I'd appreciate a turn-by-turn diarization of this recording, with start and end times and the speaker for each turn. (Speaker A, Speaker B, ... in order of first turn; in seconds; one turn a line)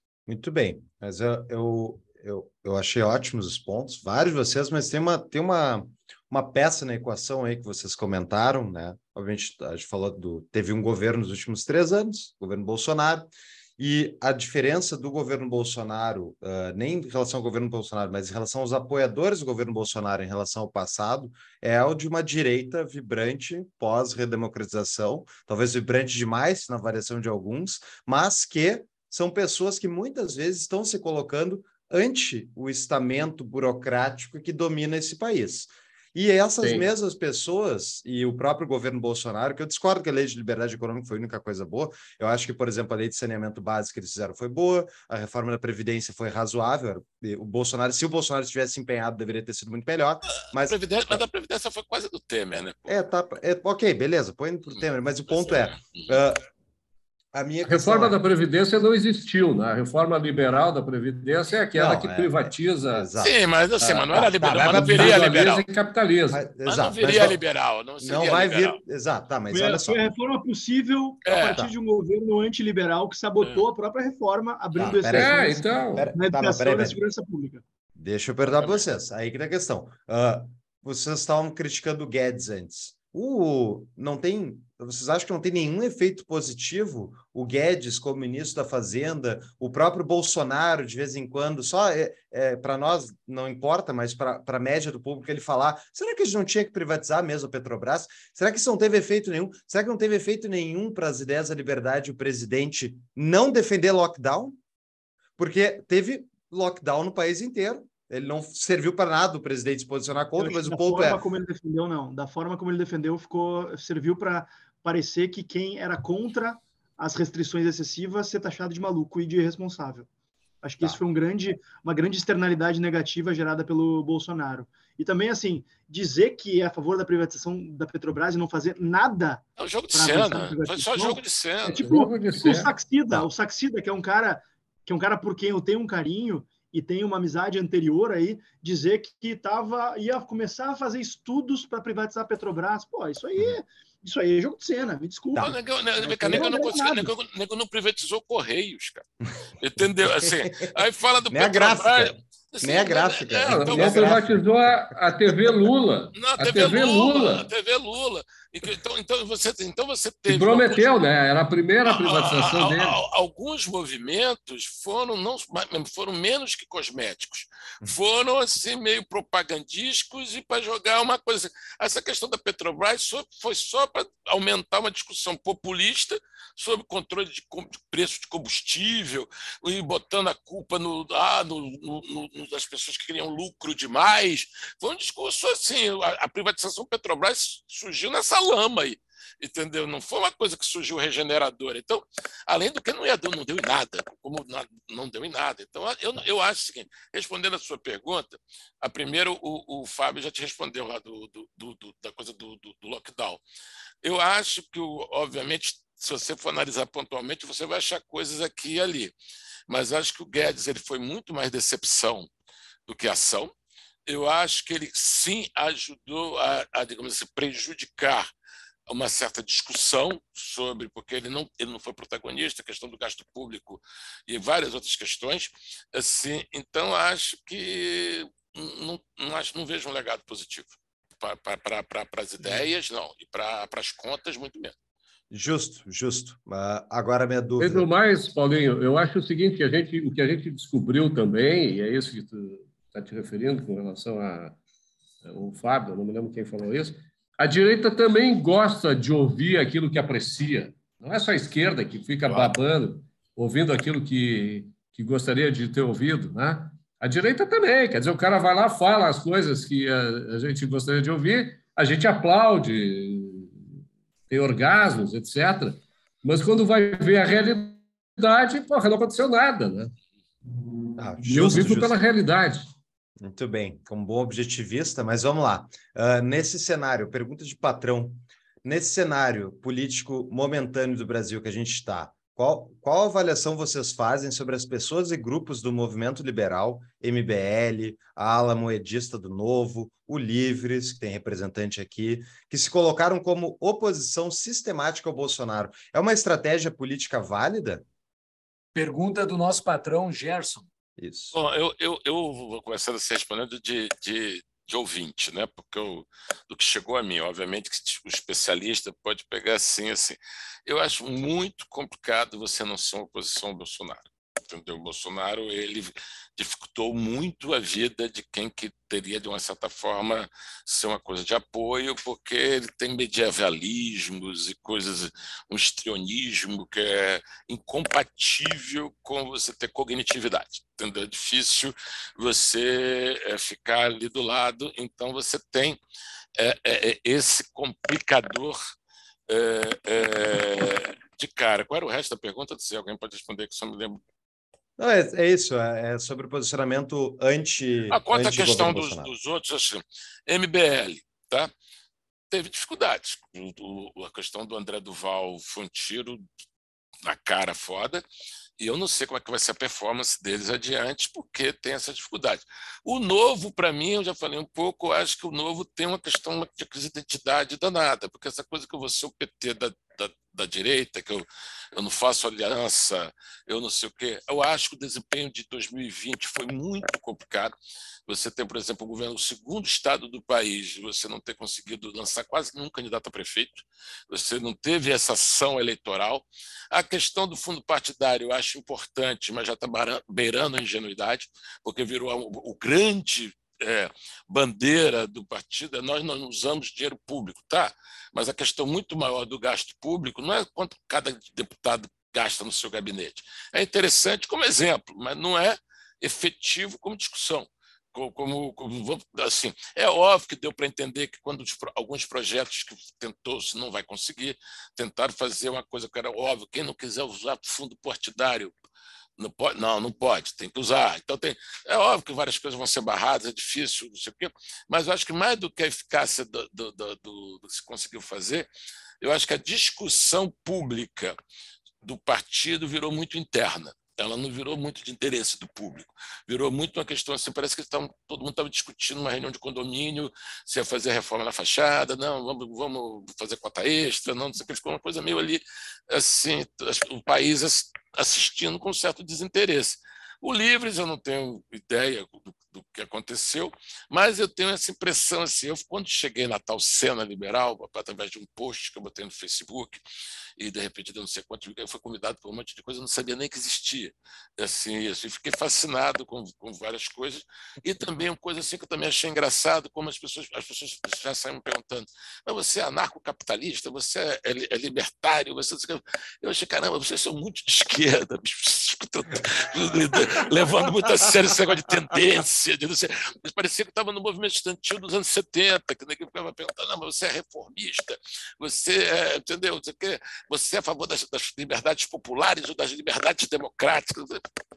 Speaker A: 0.3-51.2
Speaker B: 36.6-36.9
Speaker C: 50.5-52.9
Speaker A: 52.9-56.4
Speaker C: 54.7-56.2
Speaker A: 57.3-58.1
Speaker B: 57.6-63.1
Speaker A: 61.7-63.4
Speaker C: 63.2-65.6
Speaker B: 63.8-66.5
Speaker A: 64.1-65.3
Speaker A: 66.3-67.4
Speaker C: 66.6-68.8
Speaker A: 68.0-70.0
Speaker D: 69.5-77.6
Speaker C: 71.2-71.6
Speaker C: 73.4-73.7
Speaker A: 74.7-77.0
Speaker B: 75.1-76.1
Speaker A: 78.0-104.6
Speaker C: 78.5-78.8
Speaker A: 105.4-111.2
Speaker D: 110.4-120.1
Speaker D: 120.6-145.5
Speaker C: 129.6-131.9
Speaker B: 131.8-132.7
Speaker A: 145.3-146.6
Speaker C: 145.3-149.1
Speaker D: 146.2-147.1
Speaker C: 149.6-154.2
Speaker A: 150.2-150.7
Speaker A: 151.3-154.3
Speaker B: 153.5-157.5
Speaker C: 156.1-161.0
Speaker B: 160.3-163.0
Speaker C: 161.8-203.4
Speaker C: 204.0-209.1
Speaker C: 209.7-212.3
Speaker C: 212.8-213.5
Speaker C: 214.1-218.3
Speaker C: 218.9-234.7
Speaker A: 235.3-237.8
Speaker B: 237.6-244.6
Speaker B: 245.2-263.6
Speaker C: 252.3-252.6
Speaker B: 264.3-269.9
Speaker B: 270.8-272.6
Speaker A: 271.0-271.9
Speaker A: 273.2-297.8
Speaker E: 298.7-300.7
Speaker A: 301.0-301.4
Speaker C: 301.3-335.8
Speaker C: 336.4-338.6
Speaker C: 339.3-344.0
Speaker A: 344.8-349.1
Speaker C: 347.9-351.5
Speaker C: 352.3-356.2
Speaker C: 357.0-358.0
Speaker C: 358.6-377.5
Speaker C: 378.1-418.5
Speaker C: 419.2-428.5
Speaker C: 429.0-431.1
Speaker C: 431.8-459.8
Speaker C: 460.4-494.2